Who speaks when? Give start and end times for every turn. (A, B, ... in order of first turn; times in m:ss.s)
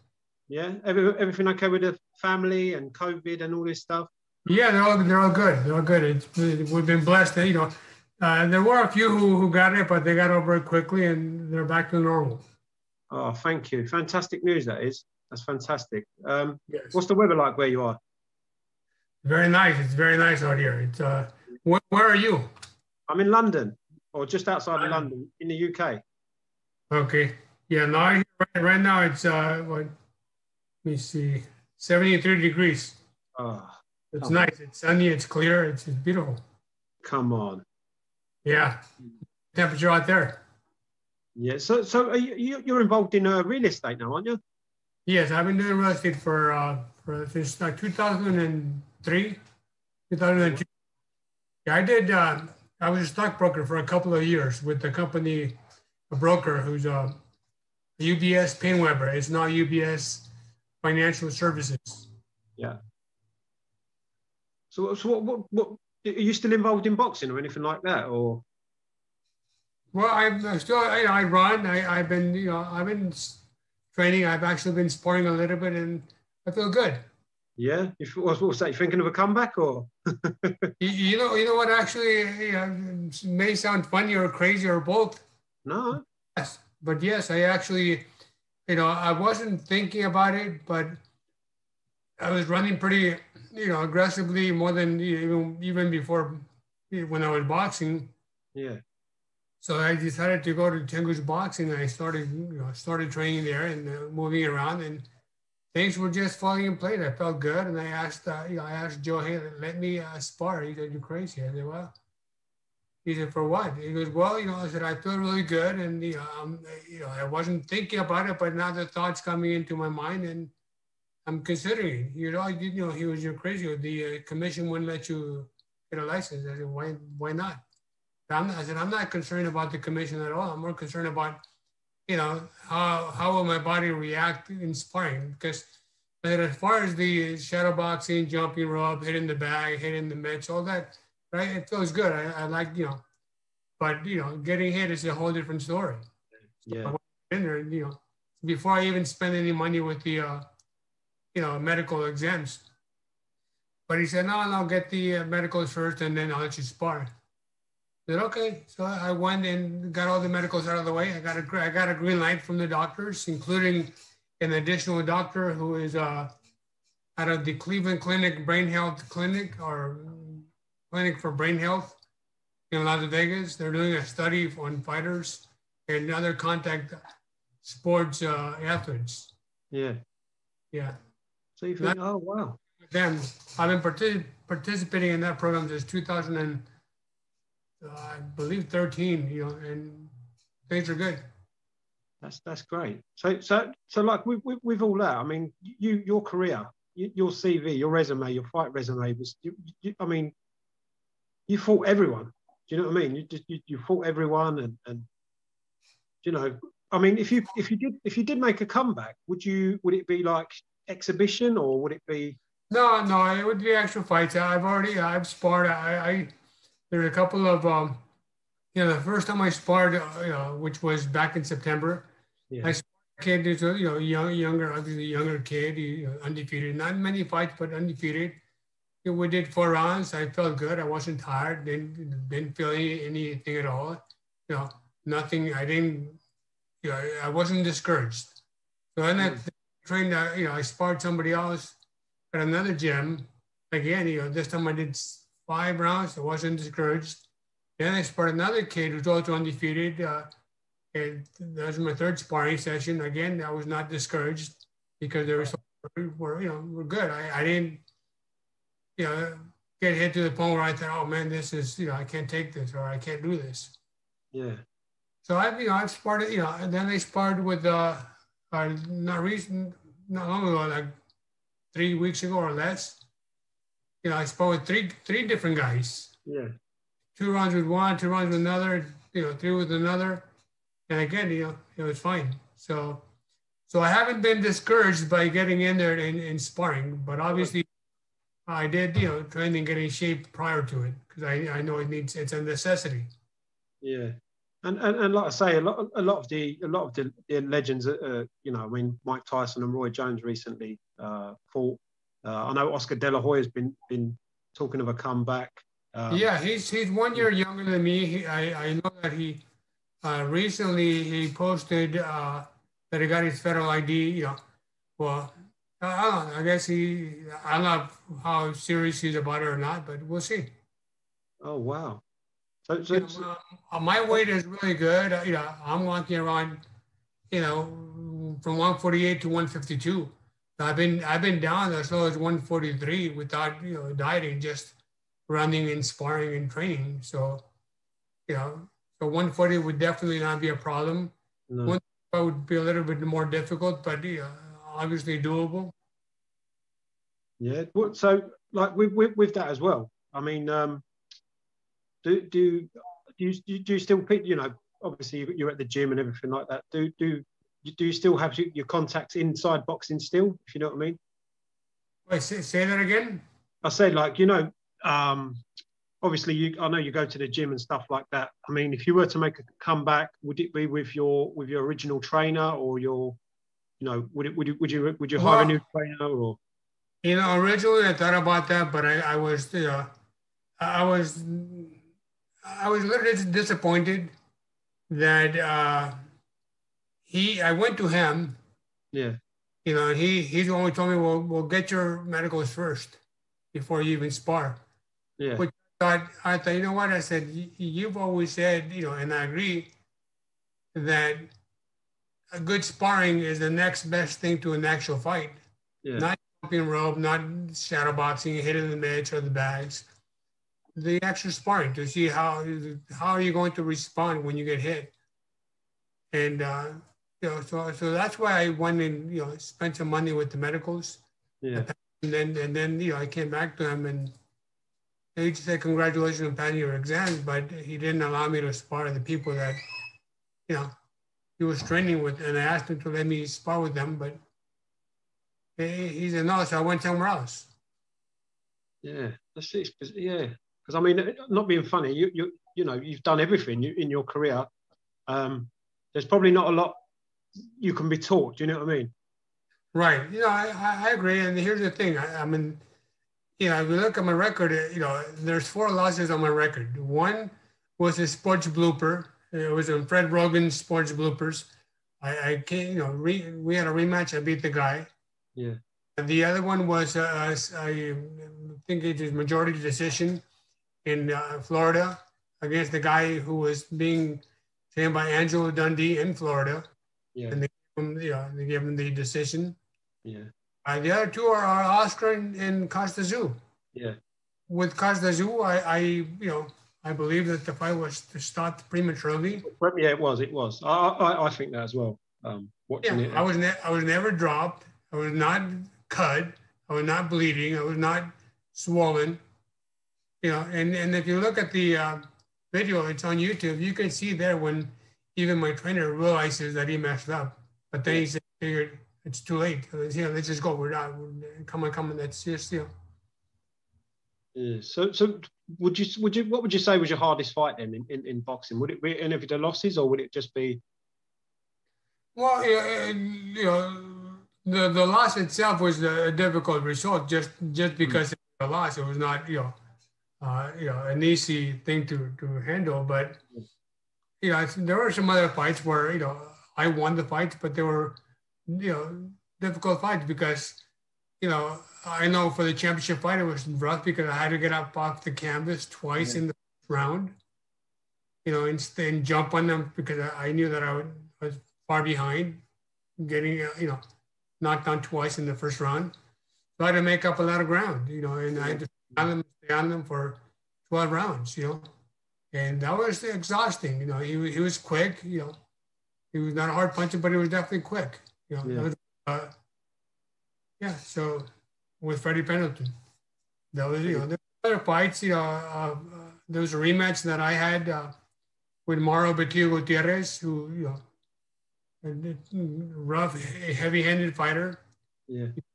0:00.5-0:04.1 A
0:04.5-0:12.4 B
0:13.1-0:18.0 A
0:16.7-0:17.0 B
0:19.2-0:22.5 B
0:23.1-0:26.0 A
0:26.9-0:29.9 B
0:30.8-0:33.0 B
0:33.4-0:34.5 A
0:34.1-0:36.4 B
0:37.0-0:37.6 A
0:38.4-0:38.8 B
0:39.5-0:40.4 B
0:41.4-0:44.4 A
0:45.1-0:49.4 B
0:50.1-0:50.7 B
0:50.4-0:50.6 A
0:51.7-0:55.6 B
0:56.1-0:57.2 B
0:58.0-1:00.3 B
1:00.8-1:02.1 B
1:04.7-1:08.4 A
1:09.9-1:13.4 B
1:13.9-1:17.0 B
1:17.6-1:20.7 A
1:20.8-1:25.2 B
1:25.7-1:26.0 A
1:26.4-1:28.0 B
1:28.7-1:31.0 B
1:32.2-1:38.1 B
1:38.6-1:38.8 A
1:39.6-1:45.1 B
1:45.7-1:52.0 B
1:53.0-2:00.5 B
2:01.2-2:07.6 B
2:08.3-2:11.4 B
2:12.1-2:23.0 B
2:23.8-2:26.0 B
2:26.6-2:27.0 A
2:26.8-2:30.4 B
2:31.3-2:32.6 B
2:33.9-2:37.1 B
2:38.1-2:46.3 B
2:47.2-2:52.0 B
2:52.7-2:57.0 B
2:57.6-2:59.3 B
2:59.7-3:00.0 A
3:01.6-3:02.6 A
3:02.9-3:06.7 B
3:07.8-3:10.1 B
3:10.7-3:11.2 B
3:12.2-3:20.4 A
3:21.5-3:25.1 A
3:26.2-3:32.4 A
3:32.7-3:36.3 B
3:36.9-3:38.0 B
3:38.7-3:42.1 B
3:42.5-3:42.8 A
3:42.6-3:48.4 B
3:49.0-3:56.2 B
3:56.8-3:58.4 B
3:59.0-4:01.8 B
3:59.2-3:59.4 A
4:02.3-4:07.2 B
4:07.8-4:10.3 B
4:10.9-4:17.8 B
4:19.0-4:23.8 B
4:24.3-4:24.6 A
4:25.2-4:30.9 B
4:31.7-4:33.0 B
4:34.0-4:36.1 B
4:36.3-4:36.5 A
4:37.2-4:40.3 B
4:40.9-4:43.0 B
4:43.7-4:47.7 B
4:48.5-4:53.1 B
4:53.8-5:06.3 A
5:06.1-5:09.4 B
5:10.0-5:14.4 B
5:15.0-5:20.5 B
5:21.4-5:22.0 A
5:22.7-5:23.3 A
5:22.9-5:26.6 B
5:27.3-5:34.8 B
5:35.3-5:37.4 B
5:38.3-5:45.7 B
5:41.5-5:41.8 A
5:47.4-5:50.8 A
5:52.0-6:01.0 A
6:02.1-6:03.2 B
6:03.6-6:05.4 A
6:06.0-6:13.2 A
6:13.8-6:16.4 A
6:15.2-6:15.6 B
6:17.0-6:19.9 B
6:20.6-6:21.8 B
6:22.4-6:24.1 B
6:24.9-6:25.9 B
6:27.1-6:28.4 B
6:28.9-6:29.2 A
6:29.6-6:33.0 B
6:33.5-6:34.6 B
6:35.2-6:35.5 A
6:35.4-6:39.7 B
6:40.8-6:41.3 B
6:42.3-6:45.4 B
6:45.8-6:46.1 A
6:46.0-6:49.9 B
6:50.8-6:54.9 B
6:56.1-7:01.0 B
7:01.4-7:01.7 A
7:01.6-7:04.1 B
7:05.2-7:09.6 B
7:10.5-7:10.7 B
7:11.4-7:14.2 B
7:15.6-7:17.5 B
7:18.8-7:24.5 A
7:25.1-7:26.8 A
7:27.6-7:28.9 A
7:29.7-7:32.6 B
7:33.4-7:41.5 B
7:42.0-7:44.9 B
7:46.0-7:50.2 B
7:50.8-7:56.7 B
7:57.2-7:57.4 A
7:57.3-7:59.6 B
8:00.6-8:03.4 B
8:04.5-8:09.5 B
8:09.4-8:13.3 A
8:12.8-8:19.2 B
8:20.2-8:32.7 B
8:34.4-8:40.6 A
8:42.2-8:49.6 B
8:50.2-8:53.2 B
8:54.2-8:58.0 B
8:58.5-9:00.6 B
9:01.2-9:07.2 B
9:06.0-9:06.2 A
9:08.2-9:12.4 B
9:13.0-9:13.8 B
9:14.4-9:15.9 B
9:16.6-9:21.7 B
9:18.4-9:19.0 A
9:22.3-9:25.4 B
9:26.1-9:29.3 B
9:30.6-9:31.3 B
9:31.8-9:32.7 B
9:33.5-9:37.9 B
9:38.7-9:40.8 B
9:41.8-9:44.6 B
9:45.1-9:45.4 A